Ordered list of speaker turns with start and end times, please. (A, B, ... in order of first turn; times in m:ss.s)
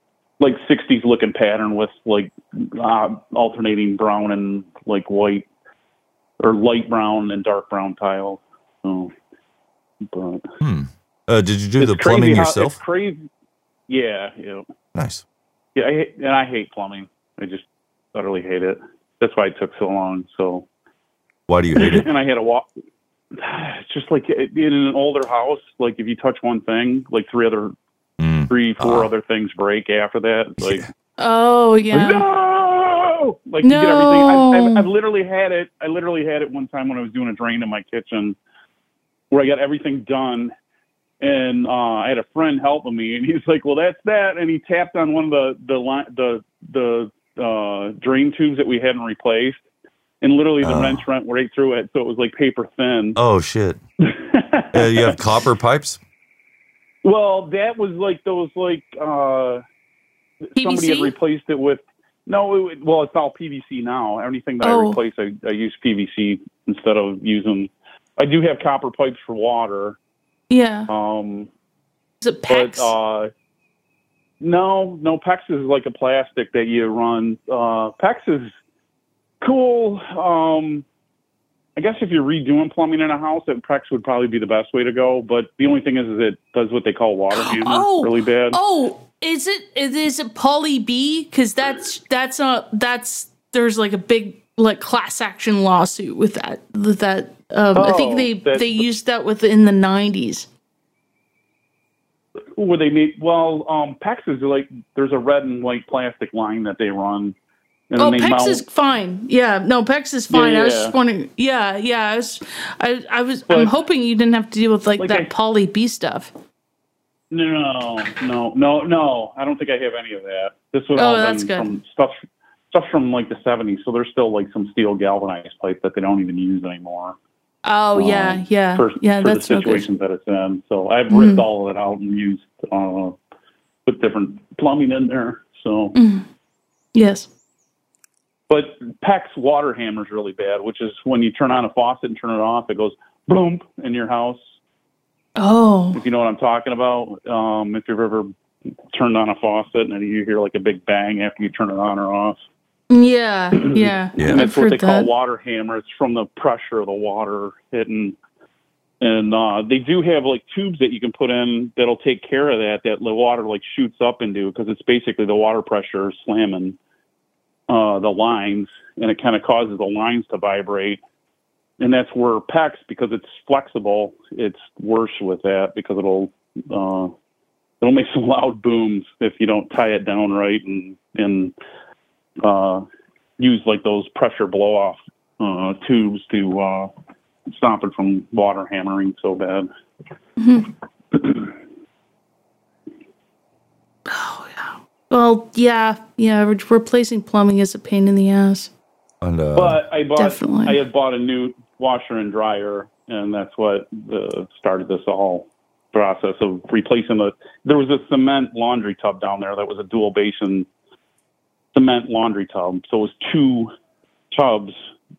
0:00.4-0:05.4 A
0:06.4-0:09.1 A
0:10.1-0:10.4 A
0:10.6-0:12.8 B
0:11.8-0:13.2 A
0:13.9-0:14.6 A
0:15.0-0:15.2 B
0:15.8-0:20.6 A
0:21.5-0:22.1 B
0:21.8-0:22.7 A
0:23.4-0:27.7 A
0:28.2-0:29.1 B
0:28.5-0:30.8 A
0:30.6-0:30.9 B
0:31.2-0:32.2 C
0:31.9-0:38.4 A
0:33.6-0:34.9 C
0:39.3-0:40.5 A
0:41.2-0:49.6 A
0:50.2-0:53.2 A
0:50.6-0:51.0 B
0:53.2-0:53.8 B
0:54.0-0:55.2 A
0:54.7-0:56.0 B
0:57.0-0:59.6 A
1:00.6-1:10.0 A
1:00.6-1:01.1 C
1:04.6-1:05.0 C
1:10.5-1:10.9 C
1:10.9-1:11.5 A
1:12.2-1:12.9 C
1:12.5-1:13.3 A
1:14.4-1:18.5 A
1:19.4-1:20.8 A
1:21.8-1:28.6 A
1:27.3-1:40.5 C
1:37.7-1:38.8 A
1:42.6-1:47.4 A
1:47.9-1:48.6 A
1:48.0-1:56.3 C
1:50.3-1:50.9 A
1:55.0-1:55.3 A
1:57.3-2:02.2 A
2:01.0-2:01.7 C
2:02.7-2:07.2 A
2:07.6-2:09.9 C
2:08.0-2:13.2 A
2:11.1-2:11.4 C
2:13.9-2:16.0 A
2:16.0-2:16.2 C
2:17.0-2:17.3 C
2:18.5-2:24.4 A
2:25.4-2:26.0 C
2:26.0-2:28.3 A
2:28.9-2:32.4 A
2:32.9-2:35.1 C
2:33.8-2:38.2 A
2:39.0-2:46.8 A
2:47.7-2:51.0 A
2:51.8-2:57.1 A
2:57.8-3:01.5 A
3:02.4-3:02.8 A
3:03.4-3:06.9 A
3:07.5-3:09.7 A
3:10.4-3:10.7 C
3:11.2-3:11.5 A
3:14.1-3:18.7 C
3:19.2-3:19.8 B
3:19.6-3:30.7 A
3:20.2-3:20.8 C
3:31.7-3:33.7 A
3:34.3-3:34.8 A